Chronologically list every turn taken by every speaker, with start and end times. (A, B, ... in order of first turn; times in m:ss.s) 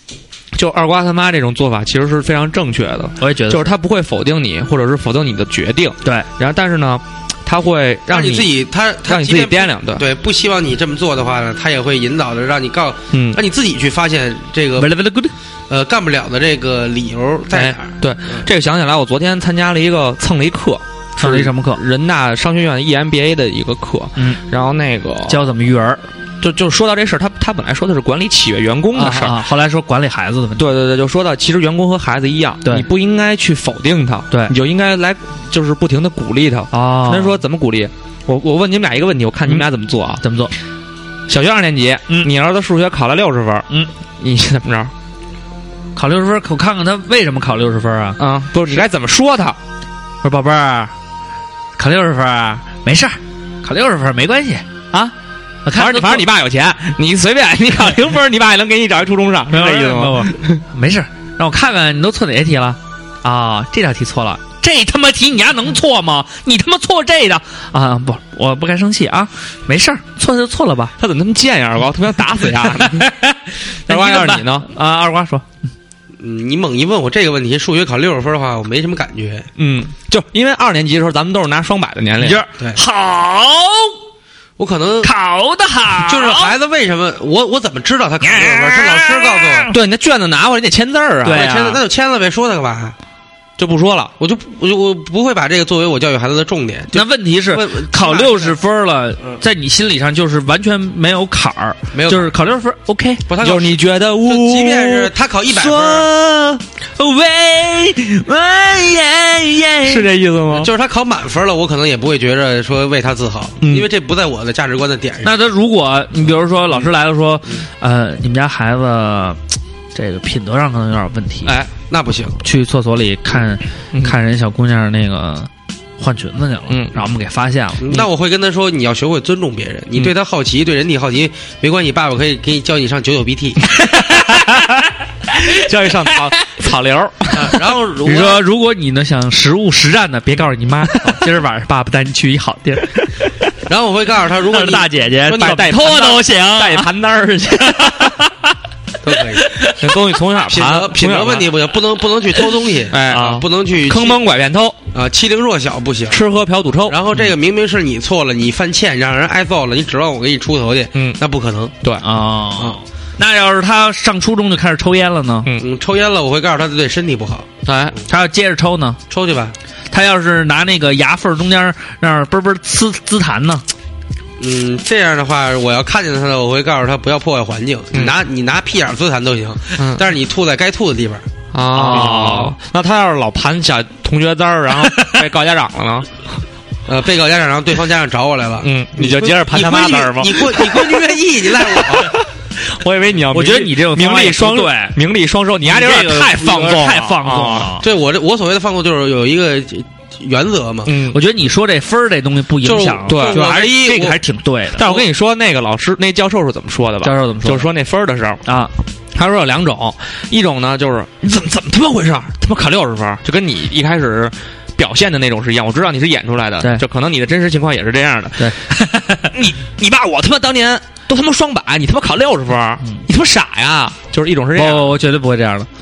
0:00.5-0:08.5 A
0:03.2-0:03.7 B
0:08.1-0:14.9 C
0:09.0-0:10.0 A
0:13.1-0:13.4 A
0:14.8-0:15.3 B
0:15.7-0:18.4 C
0:17.5-0:25.4 A
0:21.2-0:21.8 B
0:25.3-0:26.0 B
0:26.4-0:29.4 A
0:28.9-0:30.6 B
0:30.6-0:40.2 A
0:36.7-0:37.4 B
0:40.2-0:40.5 B
0:41.3-0:43.7 A
0:44.2-0:44.9 A
0:46.0-0:48.2 B
0:48.2-0:49.6 A
0:50.2-0:50.9 B
0:51.8-0:55.1 B
0:55.6-0:56.3 B
0:55.7-1:00.6 A
0:59.5-1:10.9 B
1:11.0-1:13.1 A
1:12.6-1:15.4 B
1:13.9-1:14.7 A
1:16.2-1:19.5 C
1:19.6-1:22.4 A
1:22.2-1:24.0 B
1:24.6-1:25.1 C
1:25.0-1:26.5 B
1:26.0-1:29.7 C
1:28.2-1:29.7 B
1:29.7-1:31.5 A
1:31.2-1:31.8 B
1:31.2-1:33.0 C
1:33.6-1:34.1 A
1:34.2-1:38.5 C
1:36.9-1:43.2 B
1:41.9-1:42.3 C
1:43.3-1:46.1 C
1:43.4-1:46.6 A
1:47.0-1:50.0 B
1:49.8-1:50.7 A
1:50.5-1:55.3 C
1:53.6-1:53.9 A
1:55.2-1:59.4 B
1:59.9-2:01.6 B
2:01.4-2:01.7 A
2:01.9-2:02.4 C
2:02.4-2:07.9 B
2:06.7-2:07.0 A
2:07.8-2:13.6 C
2:13.9-2:14.9 B
2:15.3-2:17.6 A
2:17.3-2:18.4 C
2:18.0-2:23.3 B
2:23.7-2:25.9 C
2:24.5-2:26.9 B
2:25.3-2:28.1 A
2:27.6-2:28.5 B
2:29.0-2:29.5 C
2:29.4-2:29.8 B
2:29.7-2:31.6 A
2:30.5-2:34.2 C
2:32.9-2:34.8 A
2:33.1-2:33.4 B
2:34.9-2:36.2 C
2:36.1-2:37.0 A
2:36.9-2:41.7 C
2:42.0-2:45.5 B
2:45.6-2:47.5 C
2:47.6-2:48.0 A
2:48.1-2:49.0 B
2:49.1-2:49.5 C
2:49.9-2:53.6 B
2:54.4-3:01.2 C
2:59.8-3:00.0 A
3:01.5-3:06.1 A
3:01.7-3:02.5 B
3:04.8-3:05.2 B
3:06.9-3:12.1 C
3:08.6-3:17.7 A
3:13.3-3:15.0 B
3:15.6-3:17.8 B
3:17.8-3:21.0 C
3:20.8-3:21.2 A
3:21.1-3:24.9 B
3:22.6-3:24.2 C
3:23.1-3:23.4 A
3:24.8-3:28.4 A
3:27.0-3:27.7 B
3:28.4-3:28.7 B
3:29.1-3:38.6 A
3:38.4-3:39.3 B
3:39.3-3:44.9 A
3:44.5-3:45.7 B